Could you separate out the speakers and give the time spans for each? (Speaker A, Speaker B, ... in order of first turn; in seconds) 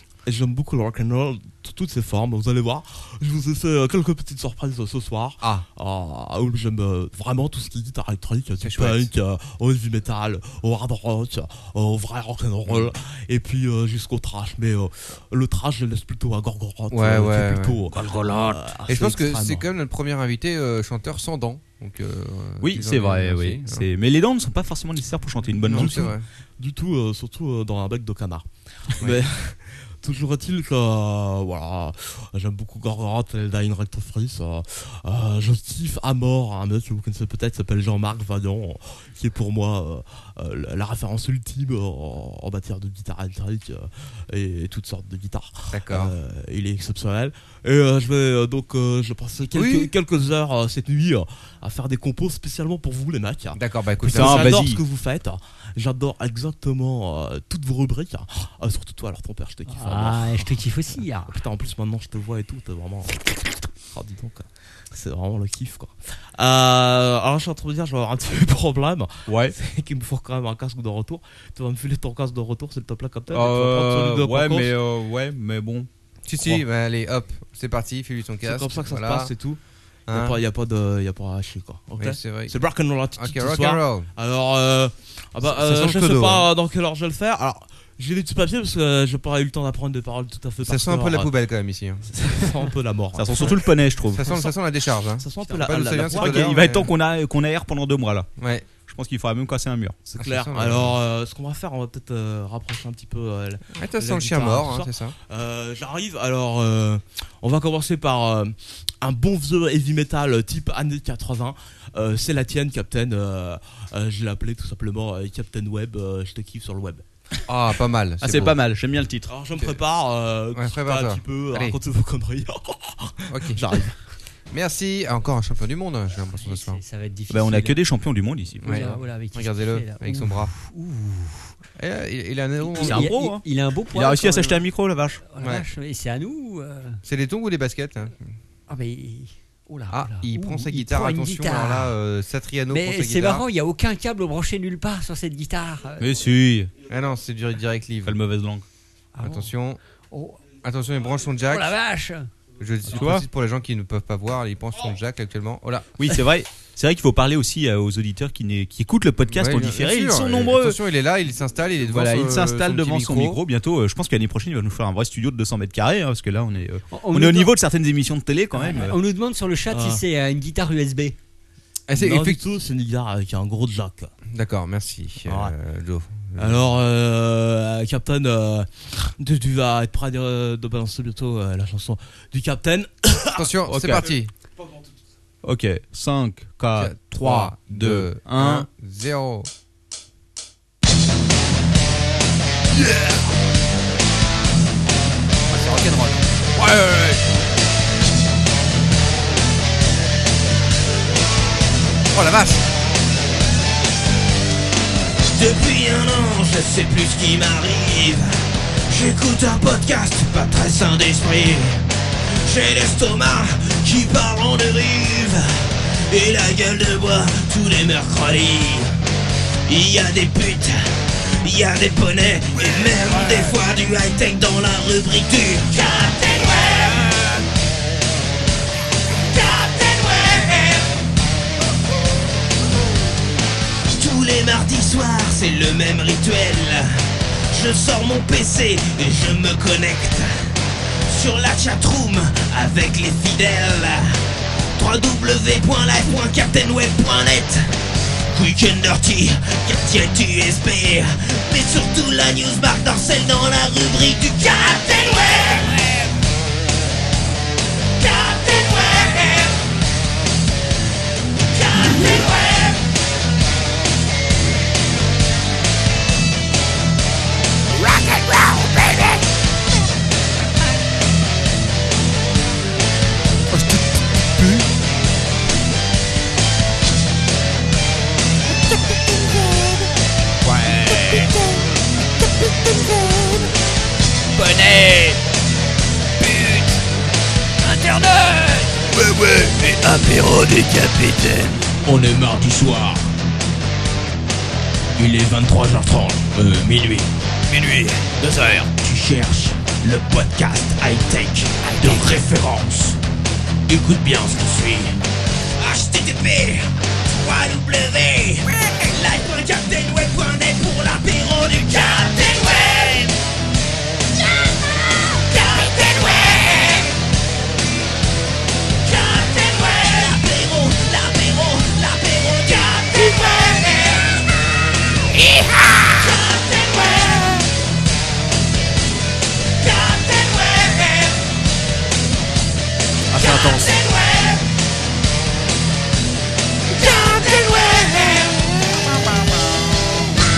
Speaker A: 0.2-19.6, 25.7-74.7, 78.4-91.3, 92.1-93.6, 95.2-96.7, 100.1-117.0, 119.3-124.0, 169.7-170.0, 172.0-174.1, 175.2-175.5, 176.4-183.5, 333.1-333.7
Speaker B: 5.4-5.7, 8.6-9.1, 12.7-12.9, 16.9-17.9, 18.9-23.9, 25.6-26.3, 45.7-46.1, 49.5-49.9, 53.5-54.6, 76.2-79.3, 80.1-80.4, 82.0-82.5, 83.2-84.1, 85.4-86.5, 90.6-92.1, 94.1-96.9, 98.4-98.7, 100.2-101.0, 103.8-105.1, 117.5-118.6, 120.5-121.8, 123.3-123.6, 124.5-126.8, 128.6-130.5, 131.8-133.1, 135.4-135.7, 137.0-138.3, 139.9-143.4, 146.9-148.2, 149.2-149.8, 150.6-151.7, 152.6-155.9, 159.3-163.4, 171.9-172.4, 174.3-176.7, 183.3-184.3, 186.7-189.5, 196.5-197.2, 202.1-202.6
Speaker C: 18.0-18.6, 205.3-218.9, 219.7-227.4, 229.2-230.9, 233.9-240.5, 241.0-247.7, 248.3-256.0, 258.0-259.6, 261.5-262.8, 267.8-269.2, 280.5-281.4, 284.4-285.2, 286.2-286.8, 287.6-293.1, 294.9-303.0, 303.7-305.0, 305.6-313.1, 314.2-316.9, 318.8-324.3, 325.1-327.5, 329.6-331.2, 333.1-334.4, 336.7-339.2
Speaker D: 22.6-26.1, 54.1-54.8, 69.3-69.5, 73.3-76.6, 93.2-94.3, 96.0-98.3, 98.8-100.0, 118.2-119.3, 127.3-128.9, 132.7-135.2, 146.0-146.7, 148.1-148.7, 152.9-153.2, 156.0-160.8, 161.8-168.9, 183.7-184.1, 185.4-188.7, 195.5-196.1
Speaker E: 59.7-61.4, 126.4-127.8, 128.6-131.5, 132.8-134.7, 135.2-137.0, 138.7-141.9, 142.7-146.1, 149.1-149.5, 150.1-150.4, 151.4-152.3, 166.9-167.5, 168.6-171.2